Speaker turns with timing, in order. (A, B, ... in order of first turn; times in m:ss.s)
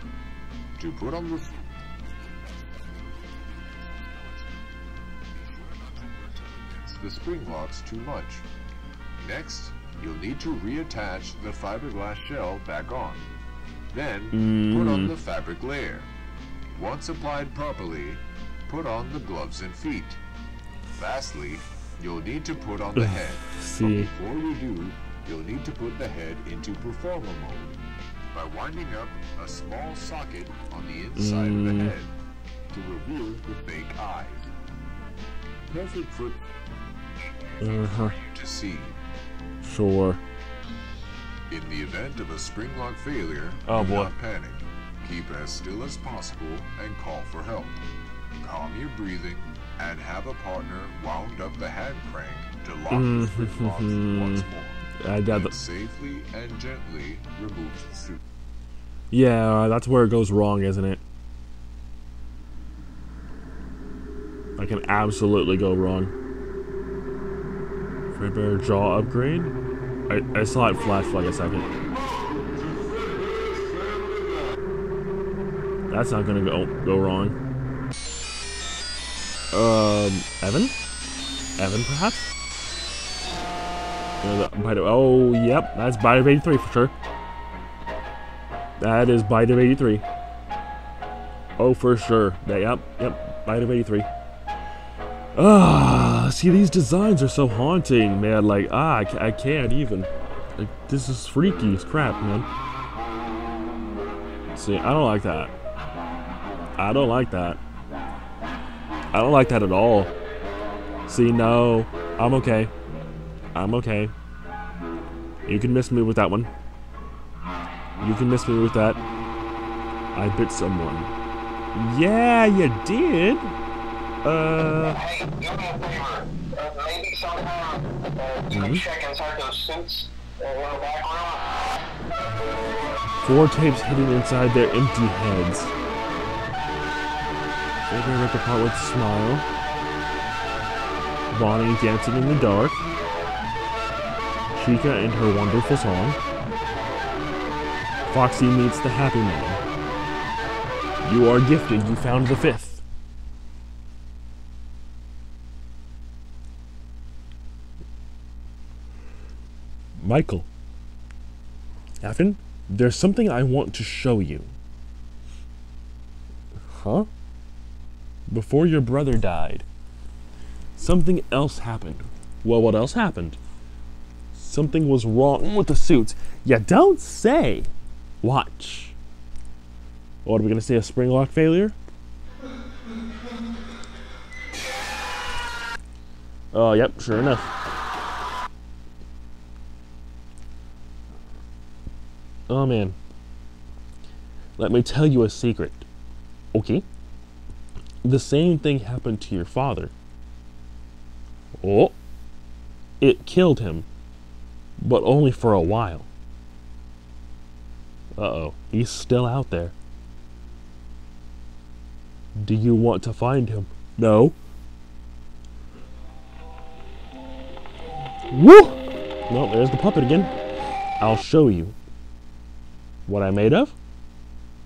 0:00.8-0:04.6 A
0:05.3-0:08.5 A
0:09.2-0:13.3 A
0:13.9-0:16.1 A
0:14.3-0:15.1 B
0:16.7-0:20.2 A
0:20.9-0:27.8 A
0:23.0-0:24.1 B
0:28.3-0:32.2 A
0:31.2-0:31.9 B
0:32.7-0:34.5 A
0:35.7-0:36.5 A
0:37.2-0:39.0 A
0:37.6-0:38.1 B
0:39.6-0:40.2 B
0:41.5-0:47.8 A
0:43.7-0:44.1 B
0:48.4-0:58.2 A
0:52.9-0:54.5 B
0:55.0-0:55.6 B
0:59.1-1:01.0 B
1:04.6-1:06.1 B
1:08.1-1:09.6 B
1:10.1-1:11.7 B
1:11.9-1:14.6 A
1:15.9-1:17.4 B
1:19.5-1:20.8 B
1:21.6-1:22.3 B
1:24.2-1:26.9 B
1:28.8-1:30.0 B
1:31.6-1:34.1 B
1:35.4-1:42.5 B
1:44.5-1:45.5 B
1:46.8-1:47.6 B
1:49.1-1:50.1 B
1:51.1-1:52.7 B
1:53.5-1:54.1 B
1:55.5-1:56.5 B
1:58.0-1:59.0 B
2:00.1-2:01.1 B
2:01.7-2:03.6 B
2:04.2-2:05.0 B
2:04.9-2:11.5 C
2:08.5-2:08.8 B
2:13.2-2:15.7 B
2:17.9-2:19.5 B
2:21.3-2:22.8 B
2:24.6-2:26.2 B
2:28.1-2:29.6 B
2:31.0-2:32.8 B
2:40.0-2:40.5 B
2:42.0-2:44.5 B
2:46.7-2:47.1 B
2:48.3-2:49.6 B
2:50.8-2:53.4 B
2:54.3-2:57.7 B
2:58.2-2:59.0 B
3:00.2-3:01.8 B
3:06.5-3:07.5 B
3:12.5-3:13.0 B
3:14.6-3:15.9 B
3:16.5-3:16.8 B
3:18.0-3:19.9 B
3:21.6-3:22.0 B
3:23.0-3:23.9 B
3:24.8-3:26.1 B
3:28.2-3:29.7 B
3:32.4-3:34.4 B
3:38.3-3:40.3 B
3:41.0-3:41.8 B
3:43.1-3:43.8 B